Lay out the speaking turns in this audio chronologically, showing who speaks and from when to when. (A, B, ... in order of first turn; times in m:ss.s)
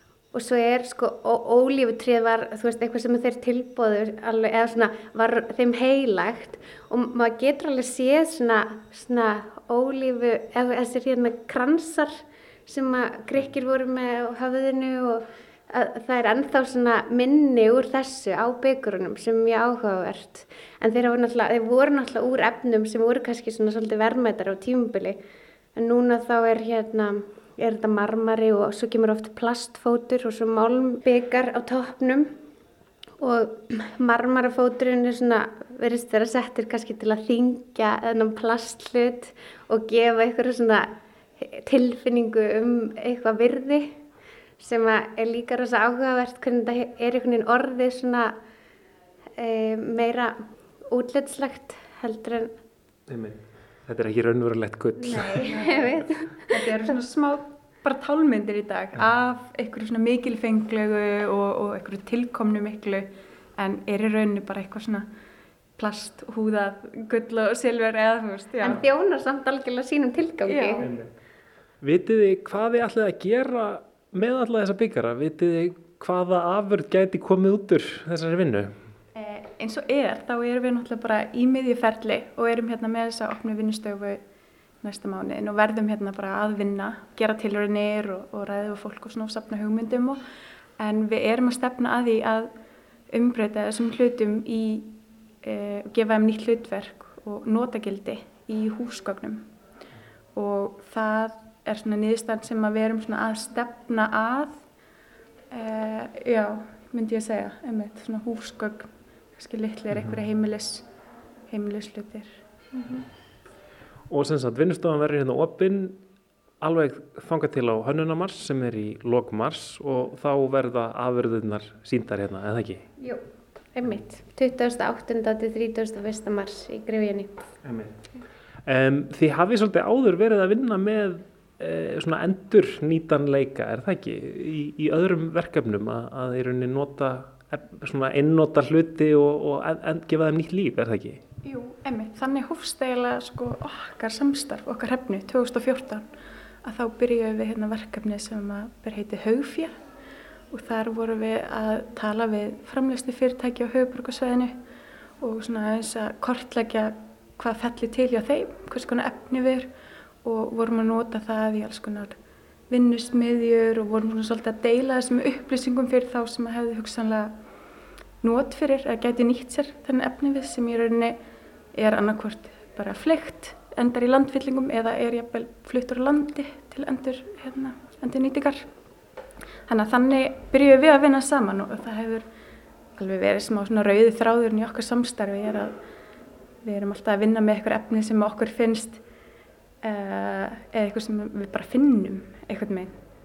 0:00.3-0:25.2 A
0:25.8-0:32.3 A
0:33.2-0:40.9 A
0:41.4-0:44.0 A
0:44.6-0:48.3 A
0:49.4-0:50.4 A
0:50.9-0:52.5 A
0:53.1-0:55.5 B
0:55.0-0:56.4 A
0:55.4-0:55.9 C
0:56.5-1:05.1 C
1:05.8-1:08.8 C
1:08.6-1:10.9 A
1:10.5-1:10.9 C
1:10.8-1:11.1 B
1:11.8-1:18.8 B
1:19.1-1:24.2 C
1:24.8-1:30.2 C
1:30.8-1:32.5 C
1:33.1-1:39.5 C
1:40.3-1:44.6 C
1:45.5-1:50.9 C
1:49.9-1:50.2 B
1:51.5-1:53.0 C
1:54.1-1:56.0 B
1:56.6-2:02.9 B
2:03.0-2:07.5 A
2:07.6-2:08.1 B
2:08.6-2:21.2 B
2:21.4-2:26.1 C
2:26.6-2:29.8 C
2:30.5-2:34.6 C
2:35.2-2:39.7 C
2:40.2-2:42.2 C
2:42.7-2:47.3 C
2:48.2-2:51.2 C
2:51.7-2:58.7 C
2:59.7-3:02.3 C
3:03.0-3:05.8 C
3:06.6-3:09.0 C
3:09.8-3:13.0 C